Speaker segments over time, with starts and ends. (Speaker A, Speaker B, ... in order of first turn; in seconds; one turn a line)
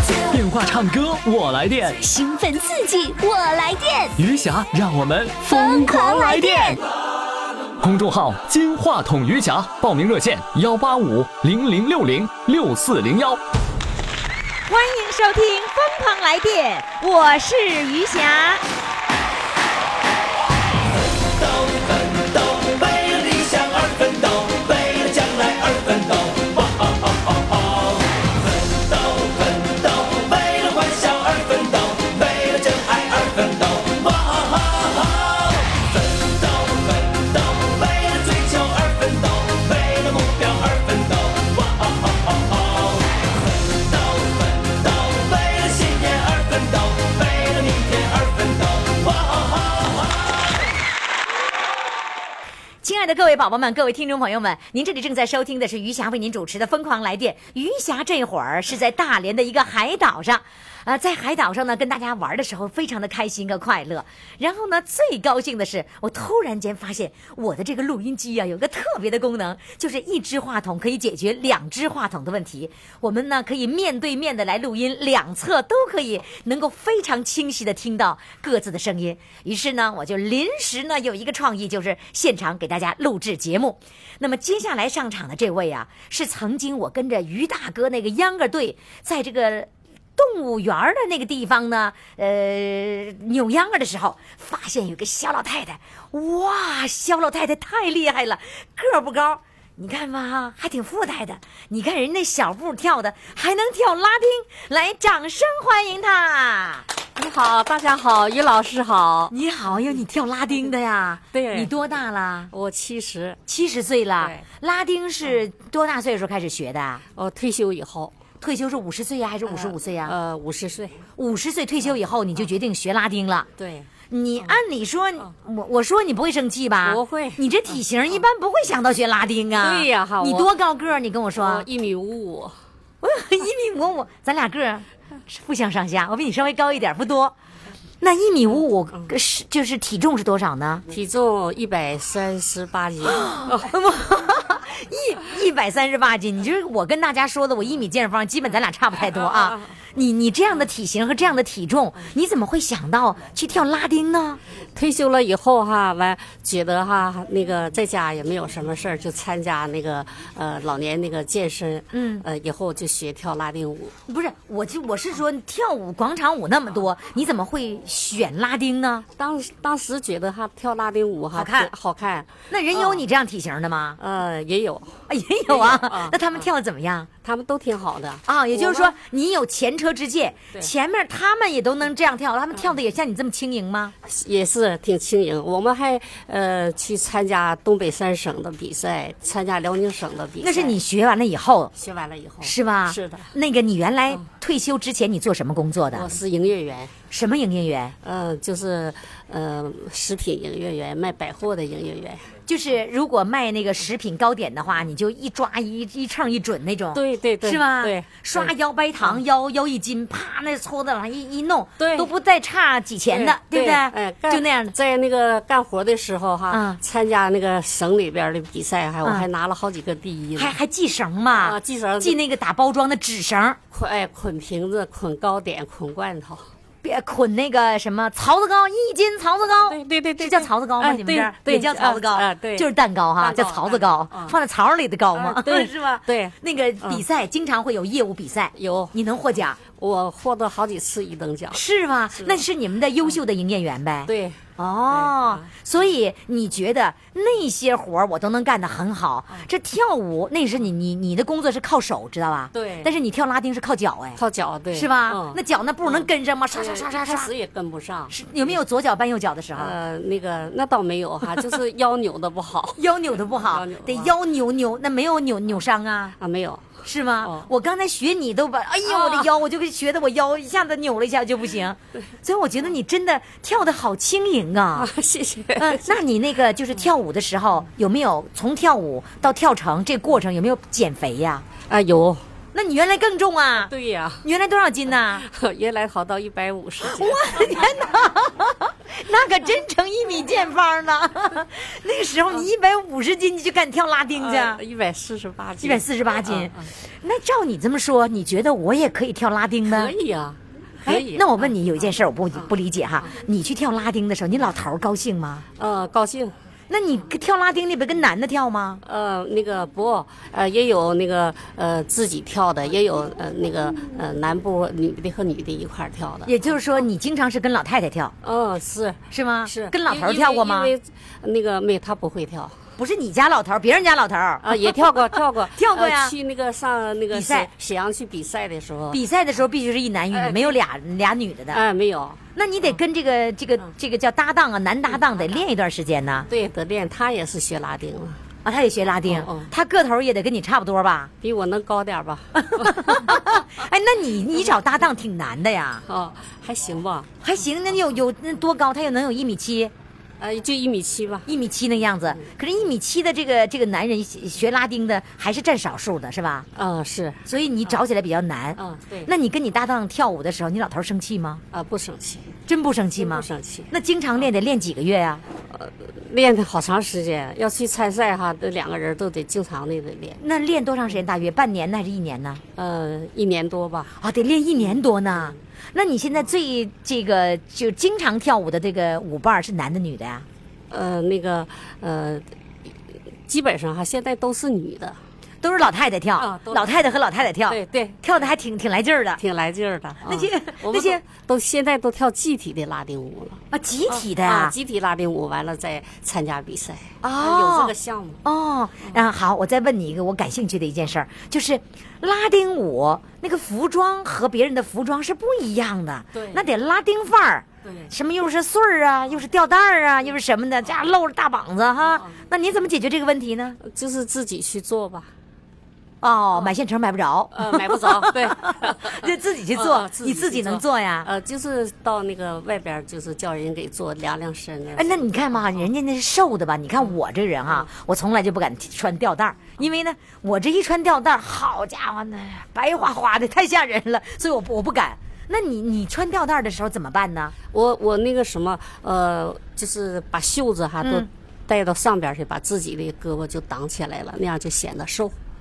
Speaker A: 0.3-2.0
Speaker B: 2.0-4.2
Speaker A: 4.2-6.8
Speaker B: 5.4-6.8
Speaker A: 7.8-13.4
Speaker C: 14.7-18.6
Speaker D: 22.1-26.6
Speaker D: 28.9-35.2
Speaker D: 36.2-41.6
Speaker D: 44.8-49.4
Speaker C: 52.8-106.9
Speaker E: 107.2-109.3
Speaker C: 109.3-112.5
Speaker E: 111.3-111.7
Speaker E: 112.5-113.4
Speaker C: 113.5-117.0
Speaker E: 117.1-118.1
Speaker C: 118.4-120.1
Speaker E: 119.5-121.0
Speaker C: 121.2-123.5
Speaker E: 123.6-123.9
Speaker C: 124.1-131.7
Speaker E: 126.8-127.4
Speaker E: 129.6-130.5
Speaker E: 131.3-132.5
Speaker C: 133.0-137.3
Speaker C: 138.0-140.8
Speaker E: 140.9-143.7
Speaker C: 143.0-154.4
Speaker E: 149.1-149.7
Speaker E: 154.8-163.9
Speaker C: 161.9-162.2
Speaker C: 164.1-169.0
Speaker E: 169.2-173.0
Speaker C: 171.3-171.7
Speaker C: 172.5-174.0
Speaker E: 174.0-176.5
Speaker C: 175.1-177.1
Speaker E: 177.2-178.9
Speaker C: 178.3-183.9
Speaker E: 184.0-190.8
Speaker C: 190.4-191.7
Speaker E: 191.7-193.3
Speaker C: 192.4-196.1
Speaker E: 195.9-196.9
Speaker C: 197.1-197.9
Speaker E: 198.0-202.2
Speaker C: 202.5-214.7
Speaker E: 206.9-209.2
Speaker E: 211.8-212.1
Speaker E: 213.1-220.6
Speaker C: 216.5-216.8
Speaker C: 220.3-223.6
Speaker E: 221.3-222.2
Speaker E: 223.7-226.5
Speaker C: 226.8-239.6
Speaker E: 229.7-234.4
Speaker E: 235.2-237.0
Speaker E: 238.5-238.9
Speaker E: 239.8-241.6
Speaker C: 241.5-254.2
Speaker E: 242.2-242.4
Speaker E: 244.1-245.5
Speaker E: 252.5-252.9
Speaker E: 254.2-258.2
Speaker C: 254.7-257.3
Speaker C: 258.1-259.8
Speaker E: 259.6-262.8
Speaker C: 262.8-266.2
Speaker E: 263.4-264.1
Speaker E: 266.2-267.5
Speaker C: 266.8-274.9
Speaker E: 268.9-269.3
Speaker E: 274.8-275.9
Speaker C: 275.6-281.4
Speaker E: 281.7-282.2
Speaker C: 282.5-283.7
Speaker E: 283.6-284.2
Speaker C: 284.2-285.2
Speaker E: 285.2-287.2
Speaker C: 286.8-294.6
Speaker E: 294.2-296.7
Speaker C: 295.6-299.9
Speaker E: 299.7-301.5
Speaker C: 300.8-305.4
Speaker E: 302.3-303.1
Speaker E: 305.6-306.3
Speaker C: 306.7-308.8
Speaker E: 308.8-316.3
Speaker C: 316.3-318.1
Speaker E: 318.2-322.5
Speaker C: 319.1-320.7
Speaker C: 322.8-324.7
Speaker E: 324.4-329.0
Speaker C: 325.6-326.1
Speaker C: 327.1-327.5
Speaker C: 328.9-331.6
Speaker E: 330.1-330.6
Speaker E: 331.5-332.8
Speaker C: 332.4-336.3
Speaker E: 336.3-338.2
Speaker C: 338.4-341.1
Speaker E: 339.1-339.5
Speaker E: 341.2-343.3
Speaker C: 342.4-345.8
Speaker E: 345.9-347.1
Speaker C: 347.2-349.7
Speaker E: 350.2-351.3
Speaker C: 351.3-356.5
Speaker E: 356.6-357.8
Speaker C: 357.3-361.4
Speaker E: 358.6-359.1
Speaker E: 361.5-362.3
Speaker C: 362.5-365.2
Speaker E: 363.0-363.7
Speaker E: 365.5-370.2
Speaker C: 370.2-372.4
Speaker E: 372.6-374.0
Speaker C: 374.0-380.3
Speaker E: 380.7-382.2
Speaker E: 383.3-385.0
Speaker C: 385.4-389.2
Speaker E: 386.2-386.7
Speaker E: 387.5-388.0
Speaker E: 389.2-398.2
Speaker C: 390.1-391.0
Speaker C: 393.5-394.6
Speaker C: 397.0-413.6
Speaker E: 406.1-406.4
Speaker E: 407.6-407.9
Speaker E: 411.8-412.2
Speaker E: 413.6-415.1
Speaker C: 416.0-421.1
Speaker E: 417.3-425.1
Speaker C: 424.8-437.4
Speaker E: 437.5-445.2
Speaker C: 440.8-441.1